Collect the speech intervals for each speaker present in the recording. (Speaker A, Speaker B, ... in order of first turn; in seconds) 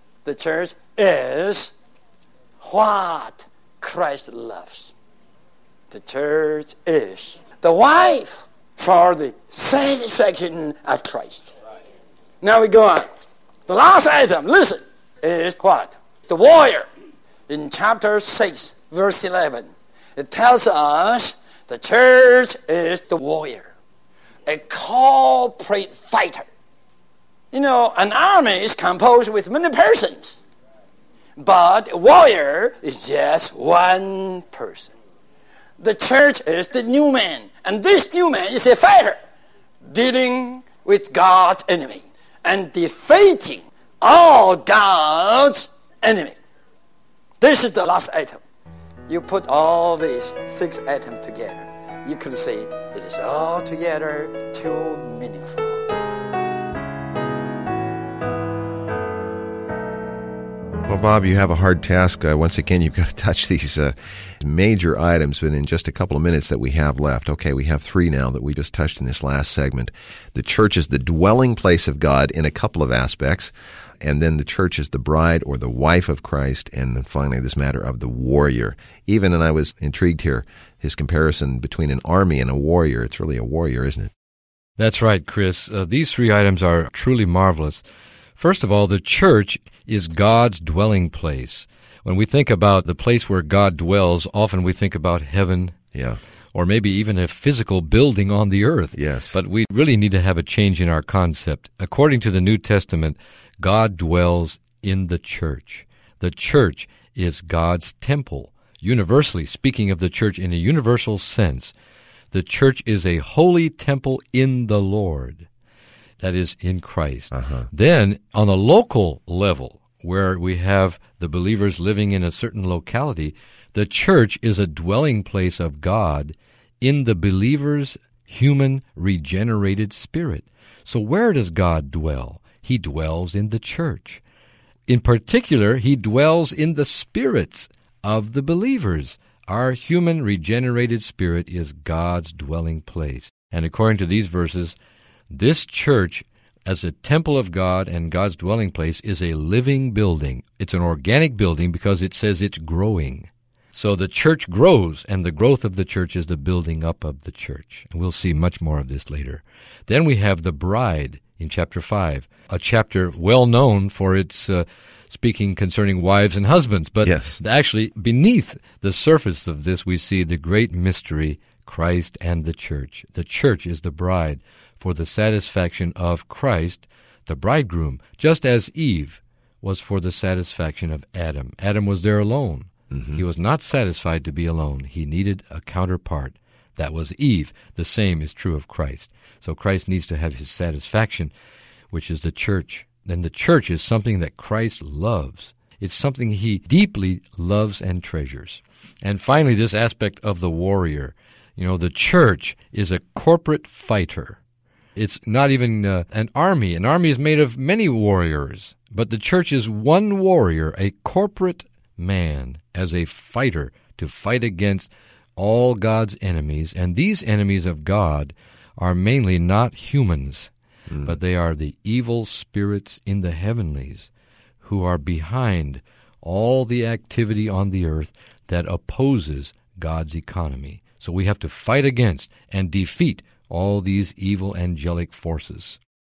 Speaker A: 0.2-1.7, 2.6-4.9, 5.9-11.5, 12.4-13.1, 13.7-16.9, 17.5-23.7, 24.5-26.5, 27.5-30.4, 31.4-34.9, 35.8-39.2, 39.9-46.4, 47.4-48.4, 49.1-55.8
Speaker B: 60.9-84.1, 95.9-96.2, 99.0-99.4, 117.3-117.7, 167.1-167.4, 182.9-183.2
Speaker C: 84.8-87.8, 88.4-95.8, 96.5-111.7, 112.3-115.5, 116.2-134.2, 134.9-144.8, 145.3-191.3, 191.9-204.4, 205.0-220.5, 221.0-224.1, 224.6-235.8